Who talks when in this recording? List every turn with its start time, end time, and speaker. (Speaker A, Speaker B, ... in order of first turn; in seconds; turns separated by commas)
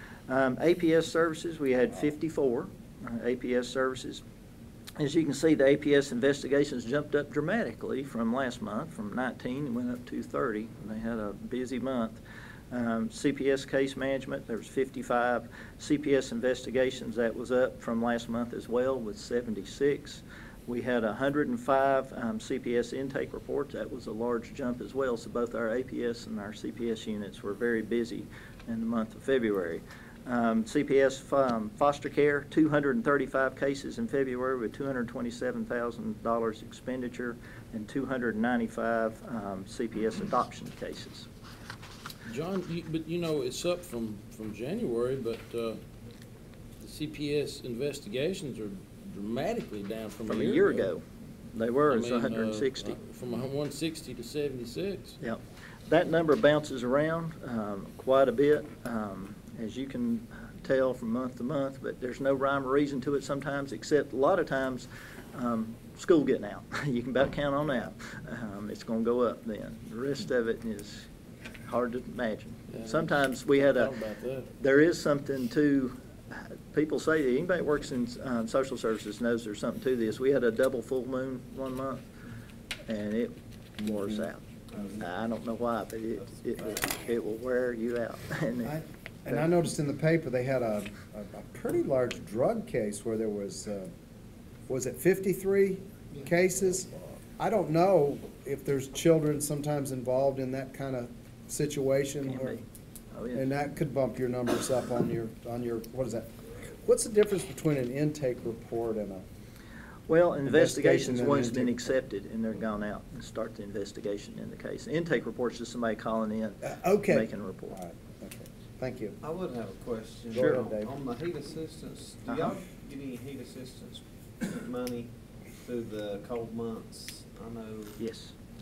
Speaker A: 0.3-4.2, Speaker A: 5.0-12.2, Speaker A: 12.7-41.3, Speaker B: 42.2-45.8, Speaker B: 46.8-50.9, Speaker A: 50.3-53.0, Speaker B: 51.9-55.2, Speaker A: 55.2-71.1, Speaker A: 71.6-73.9, Speaker B: 72.7-74.5, Speaker A: 74.6-82.0, Speaker A: 82.9-88.8, Speaker C: 84.7-85.0, Speaker C: 86.5-86.9, Speaker D: 88.6-93.9, Speaker D: 94.7-102.6, Speaker A: 102.2-103.4, Speaker D: 103.3-109.2, Speaker A: 110.1-117.8, Speaker D: 110.5-111.9, Speaker D: 116.6-119.2, Speaker C: 119.2-125.1, Speaker D: 120.3-120.9, Speaker A: 122.3-122.5, Speaker C: 125.6-128.0, Speaker A: 128.0-128.3